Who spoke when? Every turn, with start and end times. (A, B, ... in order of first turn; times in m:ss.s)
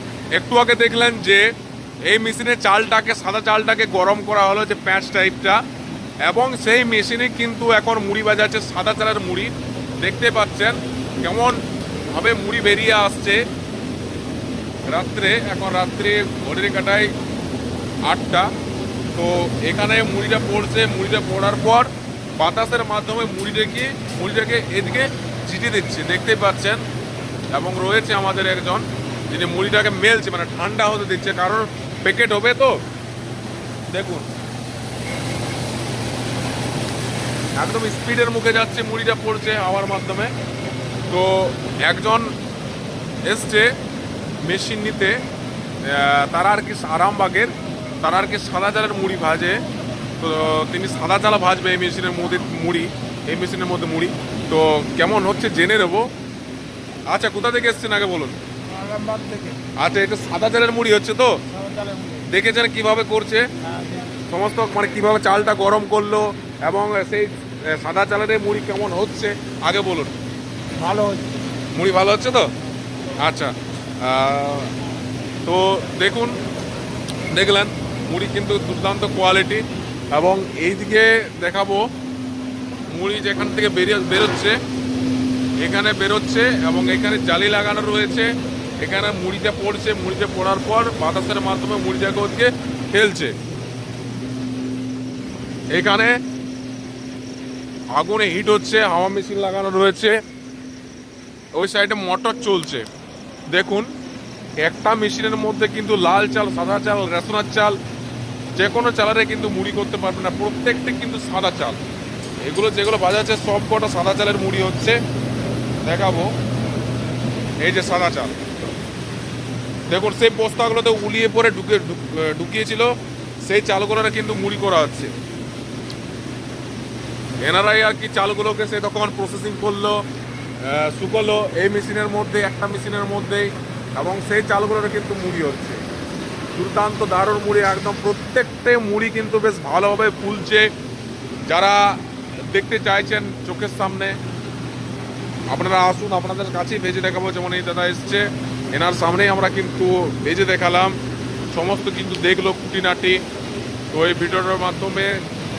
0:00.3-0:01.5 A
0:02.0-0:05.6 A
0:06.2-0:13.4 A
0:14.9-0:17.1 A
0:18.0-0:18.5 A
0:19.1-0:26.8 A
0:27.5-0:32.8 A
0:33.9-0:34.3 A
0:37.6-0:40.3 A
0:41.1-0:42.3 A
0:43.2-0:43.7 A
0:44.4-0:45.2 A
0:45.8-0:49.6 A
0:50.2-0:56.1 A
0:57.0-0:58.4 A
0:58.8-0:59.6 B
0:59.7-1:01.4 A
1:01.6-1:02.2 B
1:02.2-1:03.5 A
1:03.8-1:04.0 B
1:04.1-1:10.1 A
1:10.8-1:11.3 B
1:11.7-1:12.5 A
1:13.2-1:14.7 A
1:15.4-1:16.4 A
1:17.3-1:21.9 A
1:22.9-1:24.6 A
1:25.6-1:33.3 A
1:35.7-1:36.1 A
1:37.9-1:40.2 A
1:41.5-1:42.8 A
1:43.5-1:43.9 A
1:44.6-1:47.8 A
1:48.6-1:51.8 A
1:52.4-1:55.0 A
1:55.8-1:56.3 A
1:57.6-1:58.4 A
1:59.9-2:05.2 A
2:07.4-2:10.0 A
2:10.6-2:15.8 A
2:16.5-2:20.7 A
2:21.5-2:24.2 A
2:25.5-2:31.0 A
2:31.5-2:33.2 A
2:33.9-2:35.2 A